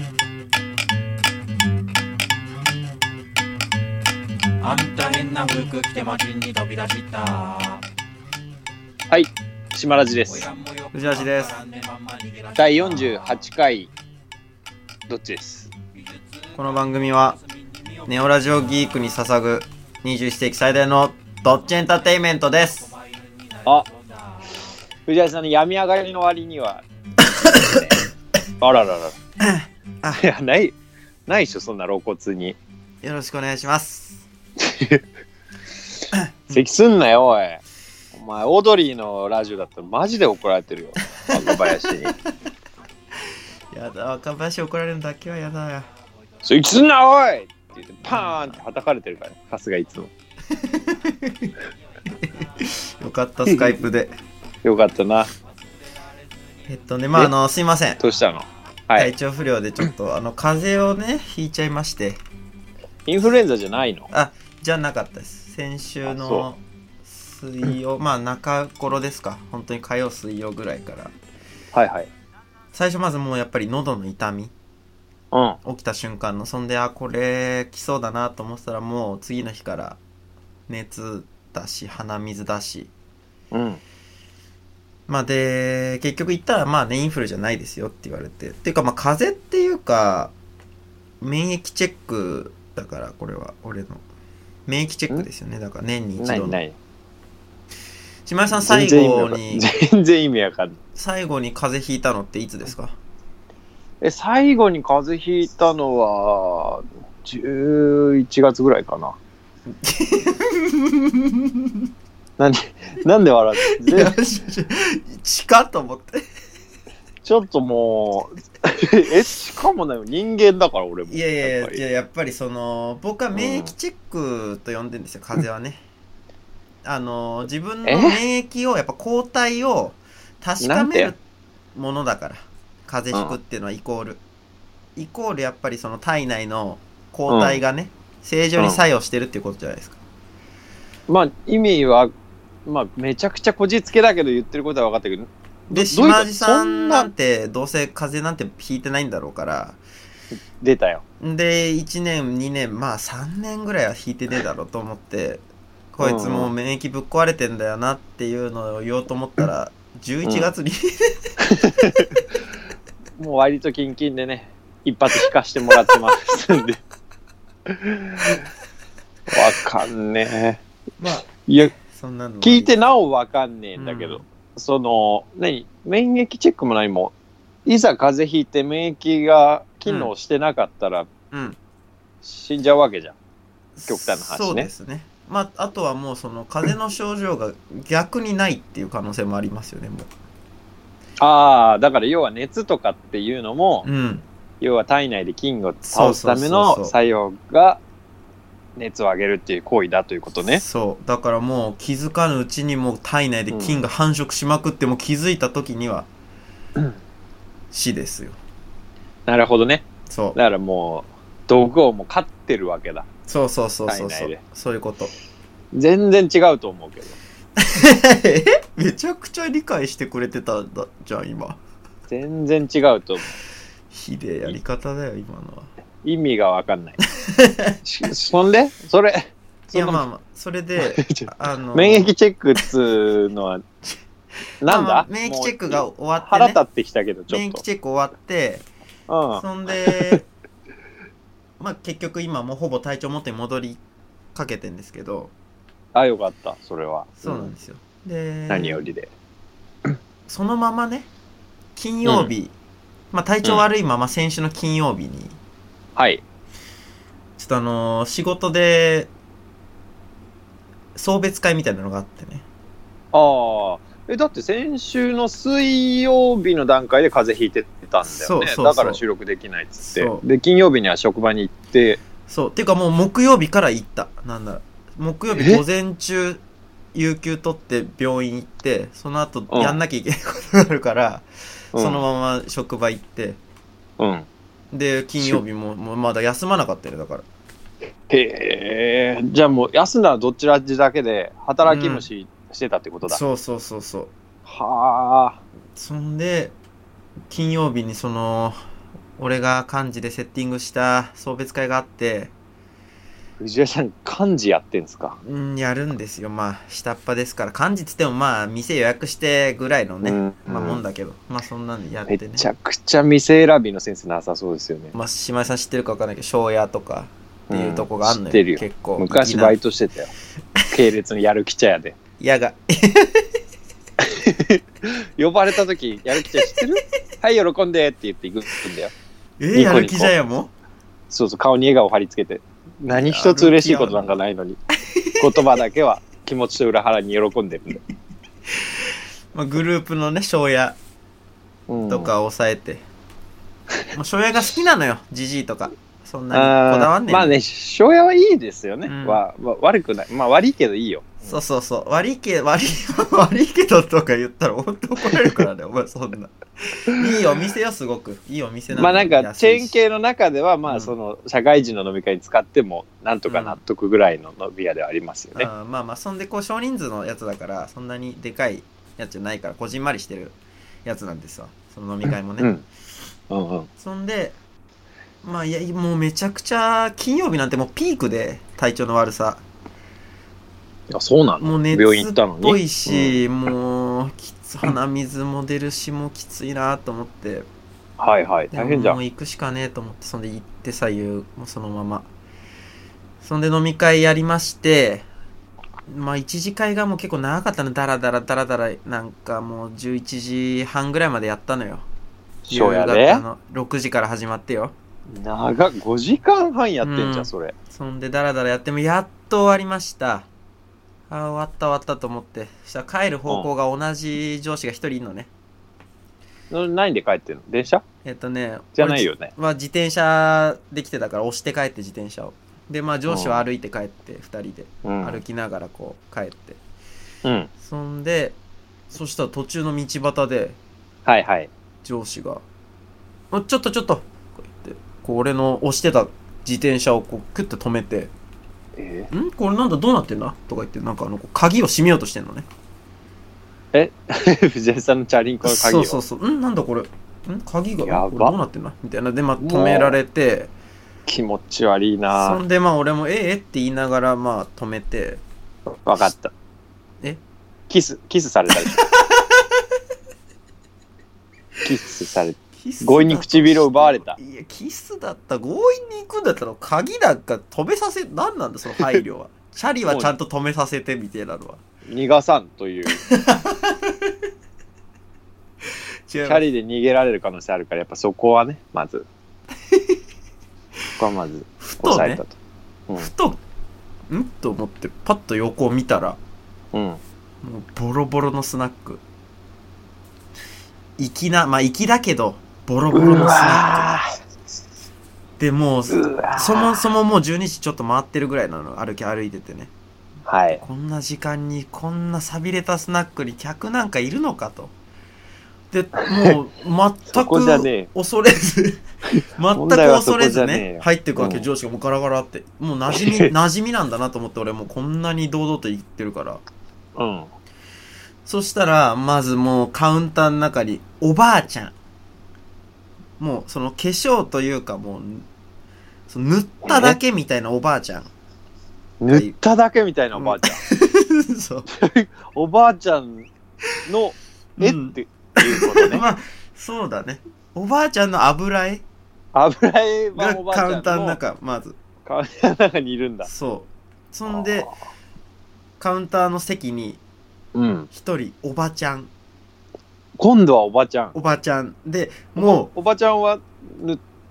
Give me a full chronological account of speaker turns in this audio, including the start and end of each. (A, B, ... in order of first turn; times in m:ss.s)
0:04.6-0:07.8 A
0:09.1-0:10.5 B
0:10.3-0:13.4 A
0:10.9-0:11.6 C
0:12.6-0:13.9 B
0:15.1-0:15.7 B
0:16.6-0:17.4 C
0:17.8-0:18.1 A
0:18.1-0:23.0 C
0:22.9-0:24.5 A
0:25.1-0:26.8 B
0:27.4-0:28.0 B
0:27.4-0:27.8 C
0:28.6-0:29.2 B
0:29.4-0:30.2 C
0:30.2-0:30.8 B
0:31.3-0:32.6 B
0:33.0-0:34.2 C
0:34.6-0:35.0 B
0:36.1-0:36.6 C
0:36.5-0:37.6 B
0:38.1-0:42.1 B
0:41.3-0:41.7 C
0:43.7-0:45.9 C
0:46.4-0:50.1 B
0:48.1-0:48.6 C
0:50.6-0:51.5 C
0:52.2-0:54.1 C
0:53.5-0:53.8 B
0:54.6-0:55.3 B
0:56.7-0:58.0 C
0:58.0-0:59.1 B
0:59.0-1:02.2 C
1:03.1-1:04.1 B
1:04.1-1:11.1 C
1:06.1-1:06.5 B
1:11.7-1:12.1 B
1:12.7-1:14.5 C
1:15.3-1:15.6 B
1:15.6-1:20.0 C
1:20.7-1:22.9 C
1:23.5-1:23.8 B
1:25.1-1:30.3 C
1:31.2-1:34.0 C
1:34.7-1:36.6 C
1:36.2-1:36.8 B
1:38.3-1:39.7 C
1:38.6-1:40.8 B
1:41.0-1:43.0 C
1:44.0-1:49.2 B
1:49.7-1:51.9 C
1:52.4-1:54.1 B
1:53.7-1:56.2 C
1:57.2-2:01.8 B
2:01.1-2:05.8 C
2:03.4-2:03.7 B
2:06.8-2:11.2 C
2:07.9-2:08.2 B
2:10.6-2:11.1 B
2:11.7-2:14.2 C
2:13.1-2:13.4 B
2:15.0-2:20.0 C
2:17.3-2:17.6 B
2:21.1-2:22.1 B
2:22.7-2:27.1 B
2:25.7-2:29.8 C
2:30.6-2:31.0 B
2:31.2-2:35.4 C
2:35.9-2:41.2 C
2:36.0-2:36.5 B
2:40.2-2:40.5 B
2:41.4-2:42.2 B
2:43.2-2:46.8 B
2:47.7-2:48.4 B
2:49.3-2:50.6 B
2:51.0-2:52.8 C
2:51.3-2:51.7 B
2:52.4-2:57.1 B
2:53.8-2:54.2 C
2:57.7-3:01.1 B
2:59.9-3:00.1 C
3:01.3-3:01.6 C
3:02.2-3:03.2 B
3:03.8-3:10.1 C
3:03.9-3:04.7 B
3:11.2-3:13.9 B
3:13.8-3:14.2 C
3:14.6-3:17.8 B
3:15.9-3:16.9 C
3:18.8-3:20.6 B
3:20.4-3:26.1 C
3:23.5-3:23.8 B
3:27.7-3:28.4 C
3:29.3-3:33.1 B
3:30.1-3:30.4 C
3:33.3-3:35.1 C
3:33.9-3:34.4 B
3:35.7-3:37.2 B
3:37.6-3:41.6 C
3:42.1-3:43.4 B
3:43.9-3:45.7 C
3:46.0-3:47.0 B
3:47.2-3:47.8 C
3:47.8-3:50.0 B
3:49.7-3:52.1 C
3:50.8-3:53.7 B
3:54.6-3:57.6 B
3:54.6-3:56.6 C
3:57.3-3:58.6 C
3:59.1-4:00.2 B
3:59.4-4:00.3 C
4:01.6-4:03.8 C
4:04.4-4:05.3 C
4:05.9-4:07.5 B
4:07.2-4:08.8 C
4:08.5-4:09.1 B
4:10.3-4:11.1 C
4:11.8-4:12.5 C
4:12.0-4:12.3 B
4:13.1-4:15.4 C
4:16.0-4:16.2 B
4:17.4-4:19.1 C
4:21.0-4:22.4 C
4:23.1-4:32.0 B
4:28.1-4:29.0 C
4:29.8-4:30.2 C
4:32.3-4:36.4 C
4:35.3-4:35.6 B
4:36.9-4:43.4 C
4:39.5-4:39.8 B
4:41.7-4:42.0 B
4:44.0-4:44.3 B
4:44.7-4:47.2 C
4:48.1-4:53.2 B
4:51.7-4:52.1 C
4:53.1-4:54.1 C
4:54.5-4:55.4 B
4:55.8-4:56.6 C
4:57.3-4:58.6 C
4:59.2-5:02.3 C
5:03.4-5:05.2 B
5:05.2-5:12.5 C
5:10.0-5:10.8 B
5:12.1-5:15.0 B
5:14.9-5:19.6 C
5:17.5-5:20.1 B
5:20.7-5:22.0 B
5:22.2-5:23.3 C
5:24.0-5:28.9 B
5:29.4-5:30.5 C
5:29.5-5:30.1 B
5:31.1-5:34.6 B
5:32.9-5:34.2 C
5:35.0-5:35.3 C
5:35.2-5:37.8 B
5:39.3-5:40.8 C
5:41.7-5:42.1 B
5:41.9-5:42.8 C
5:43.9-5:47.4 C
5:46.3-5:51.3 B
5:48.9-5:49.2 C
5:51.2-5:59.8 C
5:58.7-6:05.5 B
6:00.7-6:01.0 C
6:03.3-6:03.6 C
6:05.4-6:12.5 C
6:12.4-6:12.6 B
6:13.3-6:13.7 B
6:13.8-6:14.4 C
6:15.2-6:19.4 C
6:20.9-6:23.2 B
6:21.4-6:27.5 C
6:28.0-6:29.0 B
6:28.5-6:32.1 C
6:33.2-6:35.1 C
6:35.9-6:41.9 C
6:42.5-6:43.2 B
6:42.5-6:44.8 C
6:45.1-6:47.6 B
6:46.8-6:50.3 C
6:51.1-6:55.3 C
6:56.5-6:57.8 B
6:58.0-7:06.6 C
6:58.8-6:59.3 B
7:03.1-7:03.4 B
7:04.8-7:05.2 B
7:07.2-7:07.5 B
7:07.6-7:08.4 C
7:08.9-7:10.6 C
7:11.1-7:11.5 B
7:11.8-7:12.4 C
7:13.3-7:18.1 C
7:18.8-7:19.1 B
7:19.1-7:22.5 C
7:23.7-7:26.0 B
7:25.4-7:30.5 C
7:27.8-7:28.4 B
7:29.4-7:30.0 B
7:31.1-7:32.4 B
7:32.1-7:35.2 C
7:35.8-7:36.3 B
7:37.7-7:38.9 B
7:38.7-7:39.4 C
7:41.6-7:44.2 B
7:42.6-7:51.6 C
7:49.9-7:50.1 B
7:51.9-7:53.0 B
7:52.9-7:54.1 C
7:56.1-7:56.4 C
7:56.2-7:59.1 B
7:59.7-8:00.0 C
8:01.0-8:02.4 B
8:01.6-8:02.2 C
8:03.0-8:03.4 C
8:04.1-8:06.2 C
8:06.7-8:07.0 B
8:07.4-8:09.0 C
8:11.0-8:13.9 C
8:12.9-8:14.1 B
8:15.4-8:19.7 C
8:15.9-8:16.9 B
8:20.3-8:20.6 B
8:20.6-8:24.7 C
8:25.7-8:28.8 C
8:27.1-8:27.9 B
8:29.2-8:31.5 B
8:29.4-8:36.4 C
8:32.9-8:33.3 B
8:37.0-8:37.3 B
8:38.2-8:41.8 C
8:43.2-8:45.3 C
8:46.1-8:48.1 C
8:46.6-8:47.0 B
8:49.0-8:50.6 B
8:50.2-8:51.7 C
8:51.7-8:53.3 B
8:53.9-8:56.0 B
8:54.6-8:58.8 C
8:59.3-9:01.2 B
9:00.2-9:01.8 C
9:02.0-9:03.3 B
9:03.2-9:04.7 C
9:04.3-9:04.7 B
9:05.8-9:07.0 C
9:07.6-9:07.9 B
9:07.9-9:09.1 C
9:10.2-9:11.2 B
9:11.1-9:12.7 C
9:12.4-9:14.0 B